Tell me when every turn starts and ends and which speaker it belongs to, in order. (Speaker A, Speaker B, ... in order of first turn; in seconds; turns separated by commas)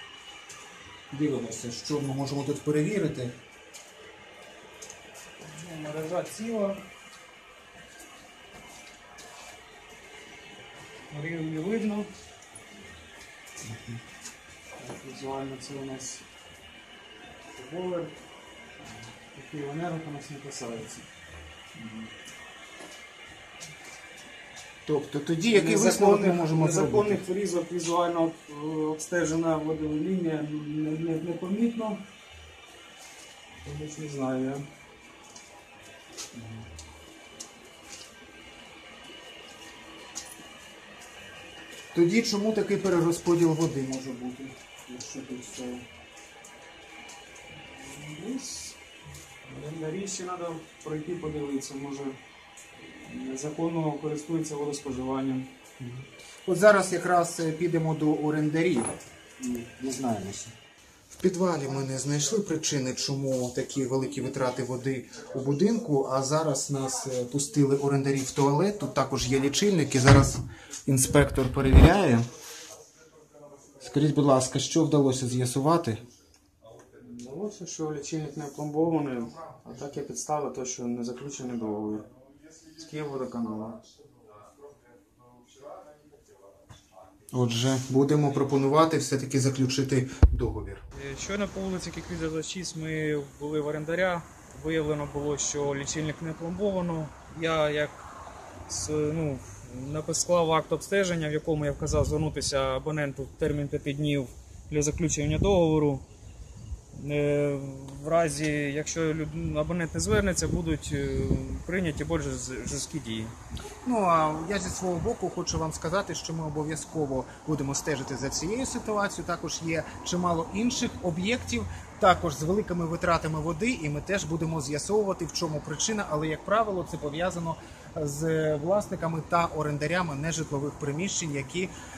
Speaker A: 1.1-3.3, Speaker B: 5.4-6.8, Speaker B: 11.1-12.1, Speaker A: 13.7-13.9, Speaker B: 14.8-16.2, Speaker B: 17.5-18.1, Speaker B: 19.3-21.1, Speaker A: 24.9-27.2, Speaker B: 25.5-32.0, Speaker B: 33.6-34.6, Speaker A: 36.3-36.6, Speaker A: 41.9-45.8, Speaker B: 47.6-48.8, Speaker B: 49.4-52.2, Speaker B: 52.8-55.5, Speaker A: 55.8-60.5, Speaker A: 61.1-72.2, Speaker A: 73.8-76.0, Speaker B: 77.0-82.1, Speaker B: 82.8-83.8, Speaker A: 87.3-90.8, Speaker B: 90.9-98.0, Speaker B: 98.7-106.0, Speaker B: 106.9-113.3, Speaker A: 113.8-131.7